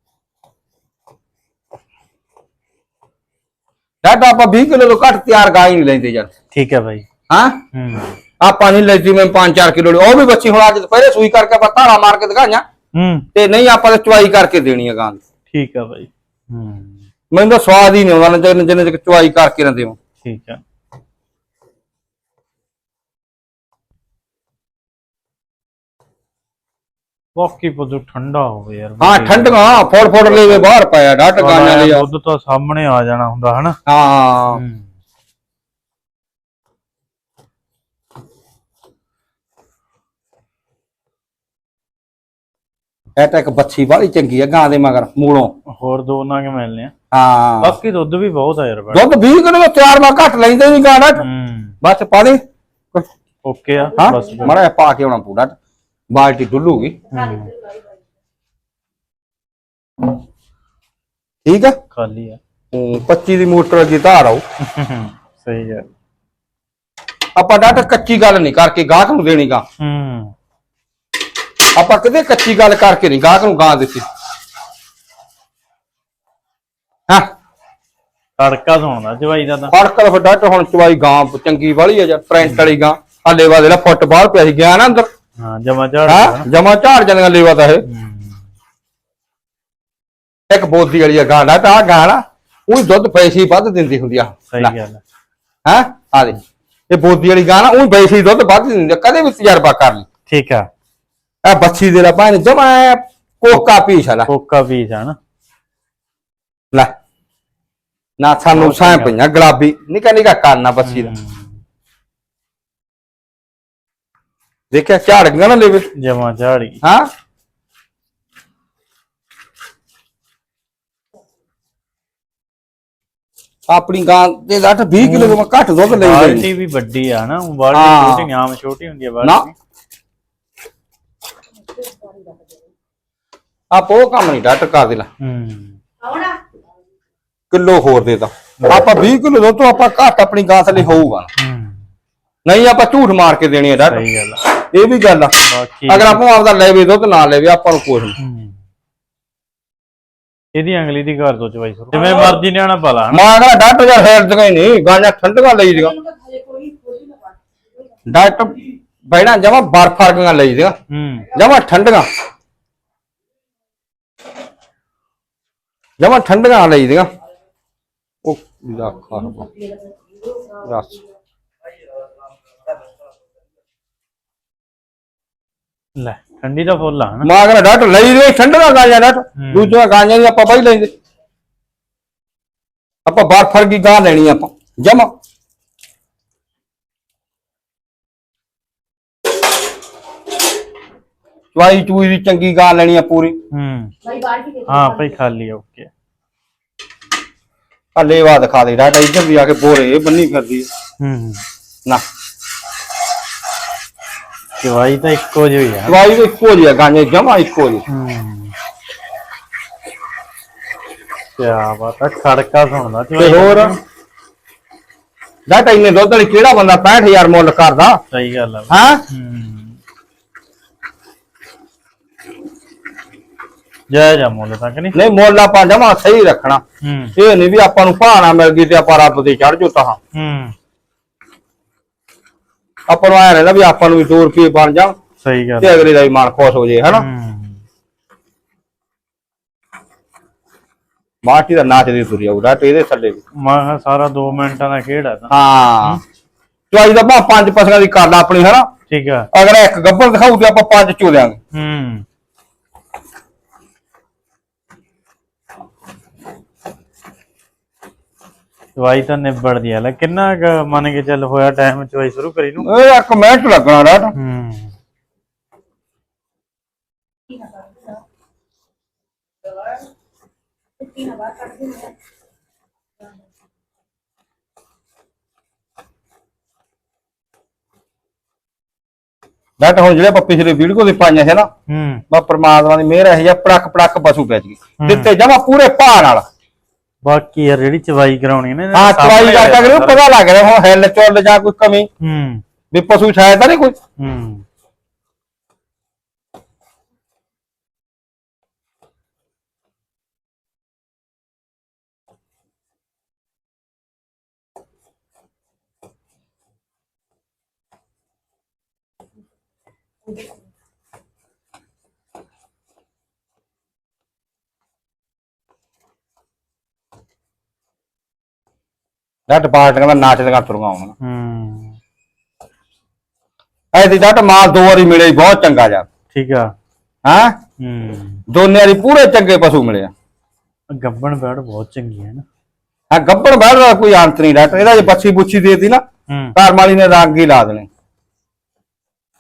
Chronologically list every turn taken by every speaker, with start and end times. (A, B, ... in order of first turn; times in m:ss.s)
0:04.0-0:06.3 A
0:06.5-0:07.0 B
0:07.3-0:07.6 A
0:07.7-0:08.2 B
0:08.4-0:12.6 A
0:13.0-0:13.3 B
0:13.4-0:15.2 A
0:15.5-0:17.0 B
0:17.3-0:20.0 A
0:20.2-0:20.6 B
0:27.4-0:30.6 B
0:29.0-0:32.0 A
0:31.4-0:33.8 B
0:33.9-0:34.6 A
0:34.5-0:34.9 B
0:43.2-0:45.5 A
0:45.7-0:46.9 B
0:47.1-0:47.8 A
0:47.6-0:49.1 B
0:48.9-0:51.2 A
0:51.2-0:51.8 B
0:51.8-0:52.4 A
0:53.4-0:54.6 B
0:54.0-0:55.6 A
0:56.1-0:57.0 A
0:57.1-0:57.6 B
1:01.4-1:01.8 A
1:01.9-1:02.4 B
1:02.7-1:04.4 A
1:04.6-1:05.9 B
1:07.4-1:09.6 A
1:09.8-1:10.3 B
1:11.8-1:14.1 A
1:18.4-1:19.7 B
1:19.7-1:25.1 A
1:22.4-1:22.7 B
1:25.4-1:26.5 B
1:26.1-1:27.8 A
1:27.9-1:28.4 B
1:30.5-1:34.7 A
1:34.5-1:35.0 B
1:35.6-1:36.4 A
1:36.9-1:40.1 A
1:40.3-1:40.7 B
1:41.4-1:44.3 A
1:44.3-1:45.2 B
1:48.2-1:51.1 A
1:48.5-1:49.2 B
1:50.8-1:51.5 B
1:54.7-1:55.9 A
1:56.0-1:56.8 B
1:56.8-1:57.1 A
2:03.7-2:06.5 A
2:05.0-2:05.4 B
2:05.9-2:09.6 B
2:07.7-2:08.3 A
2:13.7-2:15.1 A
2:15.2-2:15.8 B
2:17.5-2:21.3 A
2:18.6-2:18.8 B
2:21.4-2:21.8 B
2:22.5-2:24.0 A
2:23.8-2:24.4 B
2:24.7-2:25.3 A
2:25.4-2:26.2 B
2:25.9-2:28.2 A
2:28.2-2:28.6 B
2:30.6-2:33.2 B
2:32.0-2:32.4 A
2:33.1-2:36.0 A
2:36.0-2:37.2 C
2:38.1-2:40.8 A
2:40.9-2:41.3 B
2:41.3-2:42.1 A
2:46.0-2:47.1 A
2:48.2-2:49.5 A
2:50.6-2:50.9 A
2:56.0-2:57.3 B
2:57.2-3:00.9 A
2:59.4-2:59.8 B
3:03.0-3:05.1 A
3:11.6-3:13.4 A
3:13.5-3:14.0 B
3:14.0-3:14.9 C
3:14.6-3:15.9 B
3:18.0-3:20.7 A
3:21.0-3:21.4 B
3:24.6-3:26.0 B
3:25.9-3:27.8 A
3:27.9-3:28.5 B
3:31.4-3:33.8 B
3:33.2-3:33.7 A
3:35.5-3:38.0 A
3:38.1-3:39.8 B
3:38.7-3:39.0 A
3:43.9-3:45.0 B
3:44.9-3:46.6 A
3:46.8-3:47.2 B
3:47.2-3:50.0 A
3:50.1-3:50.6 B
3:52.9-3:55.0 A
3:55.2-3:55.9 B
3:55.6-3:57.1 A
3:56.9-3:57.6 B
4:01.2-4:03.2 A
4:03.4-4:06.0 B
4:05.3-4:06.0 A
4:06.7-4:08.7 A
4:08.9-4:09.3 B
4:09.3-4:11.4 A
4:11.5-4:12.0 B
4:18.8-4:22.7 B
4:22.6-4:24.1 A
4:24.2-4:24.7 B
4:30.8-4:31.9 C
4:39.6-4:41.5 A
4:41.7-4:42.0 B
4:42.1-4:46.2 A
4:44.8-4:45.1 B
4:47.0-4:50.0 B
4:48.7-4:51.9 A
4:52.0-4:52.4 B
4:52.7-4:53.8 A
4:54.0-4:54.4 B
5:19.3-5:20.9 A
5:21.0-5:21.8 B
5:23.7-5:25.9 A
5:26.1-5:26.5 B
5:27.0-5:27.4 A
5:27.6-5:28.2 B
5:28.3-5:29.9 A
5:30.7-5:32.2 B
5:32.9-5:35.8 A
5:36.1-5:36.4 B
5:36.4-5:37.7 A